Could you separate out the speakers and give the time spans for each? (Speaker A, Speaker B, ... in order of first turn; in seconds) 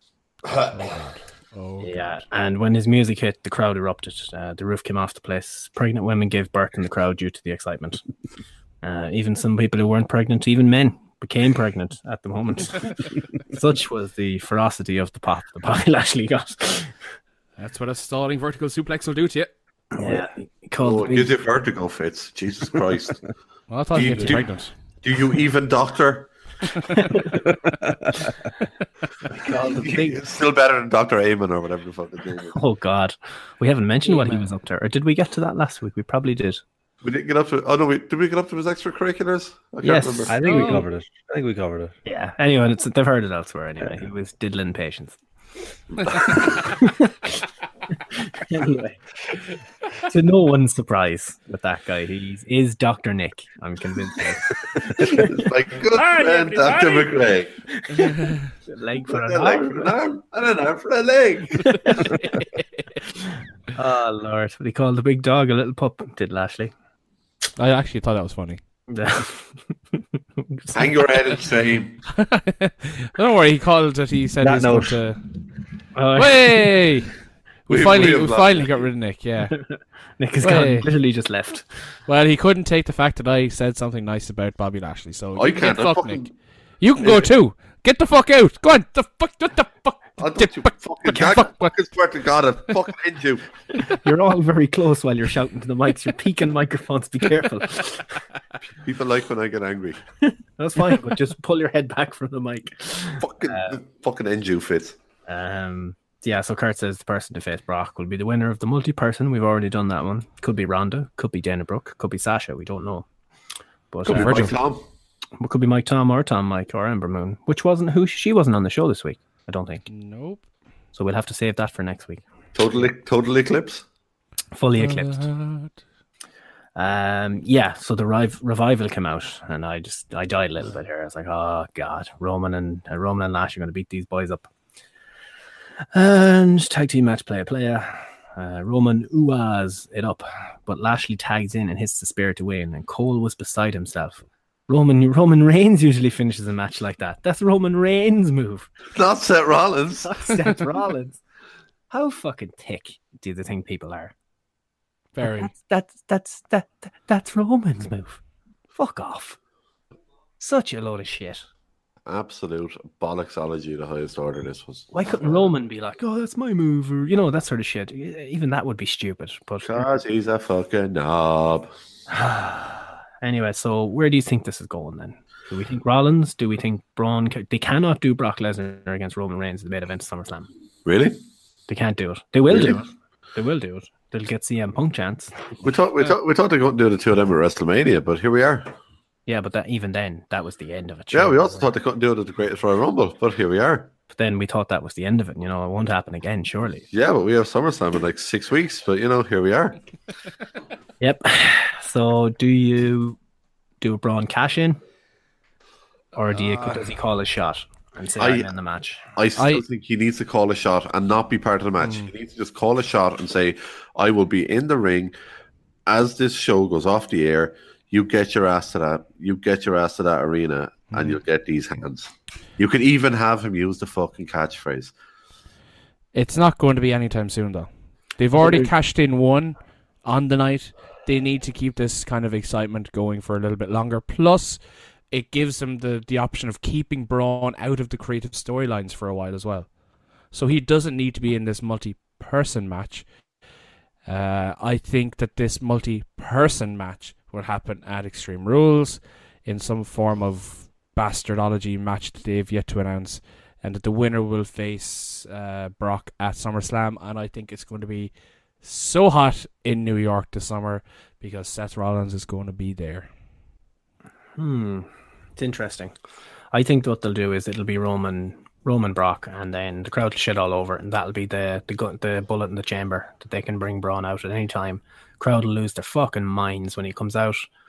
Speaker A: 0.5-0.8, 20.8-23.4, 23.9-26.3, 29.7-32.6, 37.0-40.4, 46.1-46.5, 54.9-57.5, 59.1-61.8, 70.7-72.0, 77.7-78.9, 85.3-86.3, 87.0-87.3, 90.2-93.5, 98.8-100.0, 103.2-105.0, 114.0-114.8, 122.5-123.9, 148.9-150.3, 162.1-165.5, 169.6-171.7, 180.8-181.2, 182.5-182.8, 185.6-188.7, 191.1-193.9, 196.9-199.8, 208.2-208.5, 209.2-215.2, 215.9-224.9, 228.3-228.7
Speaker B: 0.7-1.9, 17.6-19.5, 23.7-24.8, 40.4-40.8, 55.9-57.3, 58.0-58.5, 62.2-62.5, 67.6-68.6, 72.2-75.2, 76.2-79.6, 80.4-80.9, 82.1-91.7, 114.1-114.6, 119.9-120.5, 124.8-125.8, 155.2-155.5, 209.4-209.6, 211.8-212.1, 220.9-221.2, 226.1-243.3, 244.1-263.1
Speaker C: 1.8-8.0, 8.8-17.0, 19.9-21.3, 29.3-30.2, 32.5-36.6, 39.8-40.8, 42.1-45.2, 46.2-47.4, 47.9-49.0, 50.1-55.4, 57.8-60.0, 61.9-62.1, 63.1-66.7, 68.9-71.0, 76.0-76.5, 79.6-81.9, 94.0-98.0, 100.6-103.8, 105.3-113.1, 113.9-114.5, 115.4-119.9, 121.0-122.2, 124.5-125.3, 126.8-134.5, 135.9-148.7, 150.0-151.2, 151.9-154.1, 155.2-158.2, 158.7-159.4, 160.4-161.5, 164.9-169.8, 172.2-180.5, 181.7-185.5, 189.3-191.7, 194.1-196.9, 201.0-203.2, 203.8-204.8, 206.1-209.0, 264.4-266.0, 266.5-277.5
Speaker D: 40.3-41.9, 74.4-75.1